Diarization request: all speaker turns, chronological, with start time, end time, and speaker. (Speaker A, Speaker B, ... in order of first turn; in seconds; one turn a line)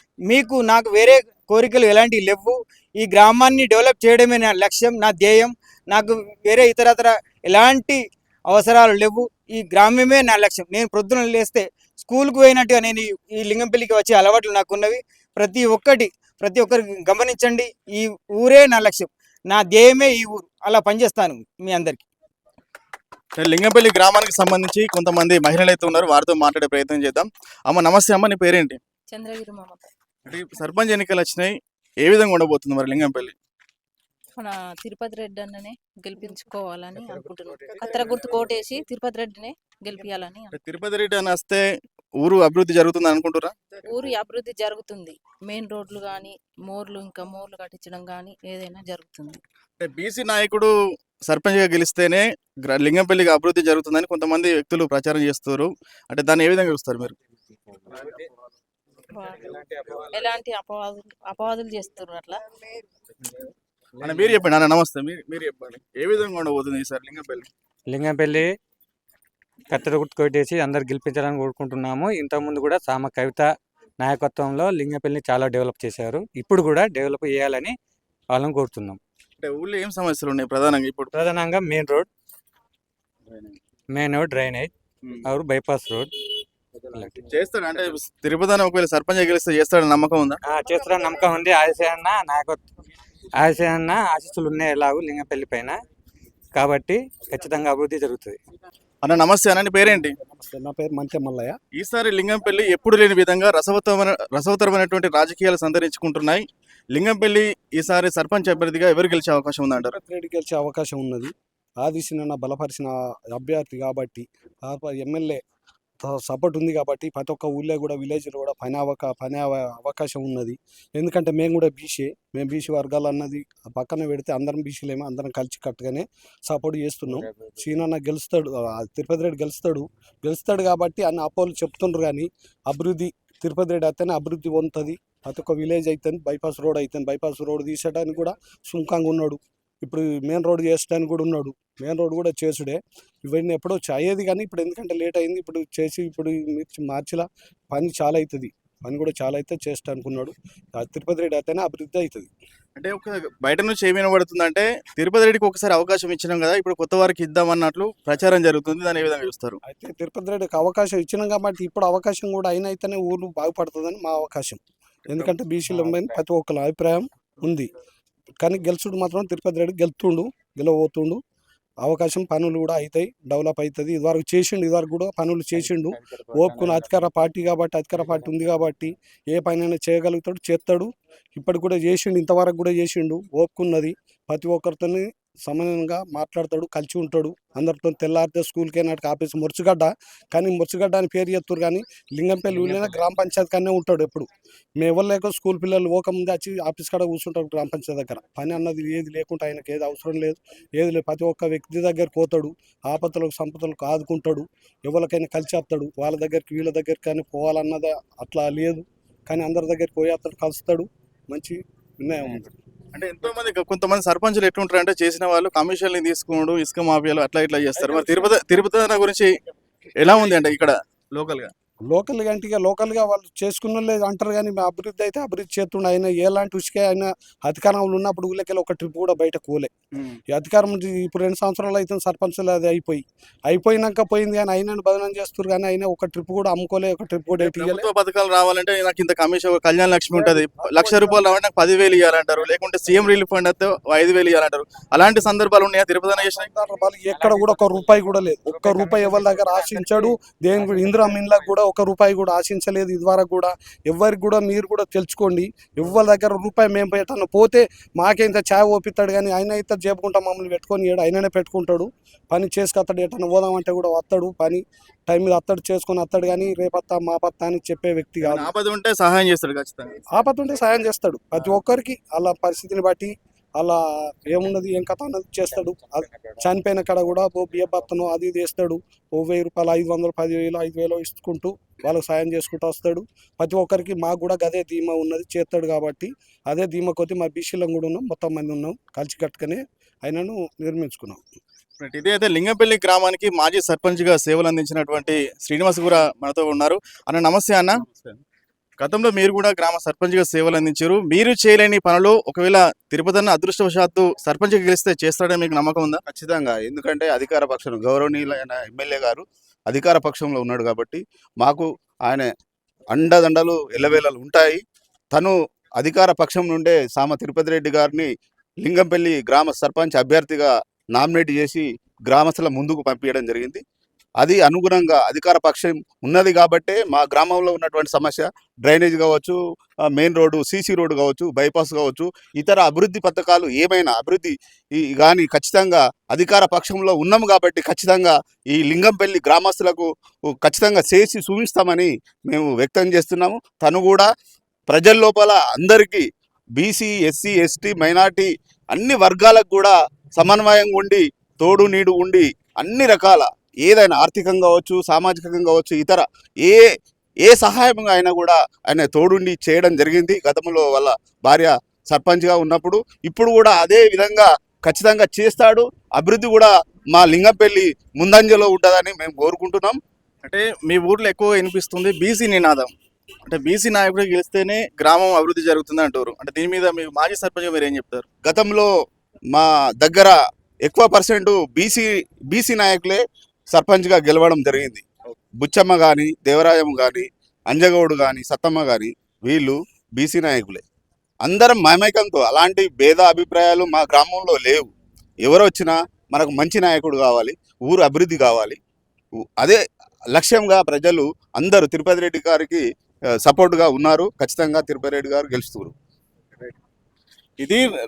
Speaker A: 0.3-22.0
Speaker B: 23.4-28.8
Speaker C: 29.1-29.9
Speaker B: 30.3-31.5
Speaker B: 32.0-33.3
Speaker C: 34.4-40.5
Speaker B: 40.5-41.6
Speaker B: 42.2-43.5
Speaker C: 43.9-49.4
Speaker B: 49.8-50.7
Speaker B: 51.3-57.2
Speaker C: 59.1-62.4
Speaker B: 64.0-67.5
Speaker D: 67.9-68.5
Speaker D: 69.7-77.8
Speaker D: 78.3-79.0
Speaker B: 79.4-81.1
Speaker D: 81.1-82.1
Speaker D: 83.9-84.7
Speaker D: 85.2-86.1
Speaker D: 86.9-87.3
Speaker B: 87.3-90.4
Speaker D: 90.4-92.7
Speaker D: 93.3-95.8
Speaker D: 96.5-98.4
Speaker B: 99.0-100.2
Speaker E: 100.2-101.6
Speaker B: 101.7-110.0
Speaker E: 109.8-115.4
Speaker E: 116.0-152.3
Speaker B: 152.8-159.6
Speaker E: 159.6-167.7
Speaker E: 168.4-171.2
Speaker E: 171.8-212.5
Speaker B: 212.9-219.3
Speaker B: 220.0-221.5
Speaker E: 221.9-229.7
Speaker E: 230.3-237.9
Speaker B: 237.4-246.5
Speaker E: 240.1-241.2
Speaker E: 246.4-268.5
Speaker D: 247.0-251.4
Speaker B: 268.2-270.0
Speaker E: 270.1-291.2
Speaker B: 291.8-297.8
Speaker F: 297.9-298.2
Speaker B: 298.8-306.0
Speaker F: 306.1-312.3
Speaker F: 312.9-318.1
Speaker F: 318.6-323.6
Speaker F: 324.2-344.1
Speaker F: 344.7-356.7
Speaker F: 357.2-369.8
Speaker B: 370.2-372.7
Speaker B: 373.3-378.1
Speaker F: 378.2-378.7
Speaker F: 379.3-380.1
Speaker F: 380.7-384.9
Speaker F: 385.4-390.6
Speaker F: 391.2-394.7
Speaker F: 395.2-398.6
Speaker F: 400.1-402.6
Speaker F: 403.2-405.7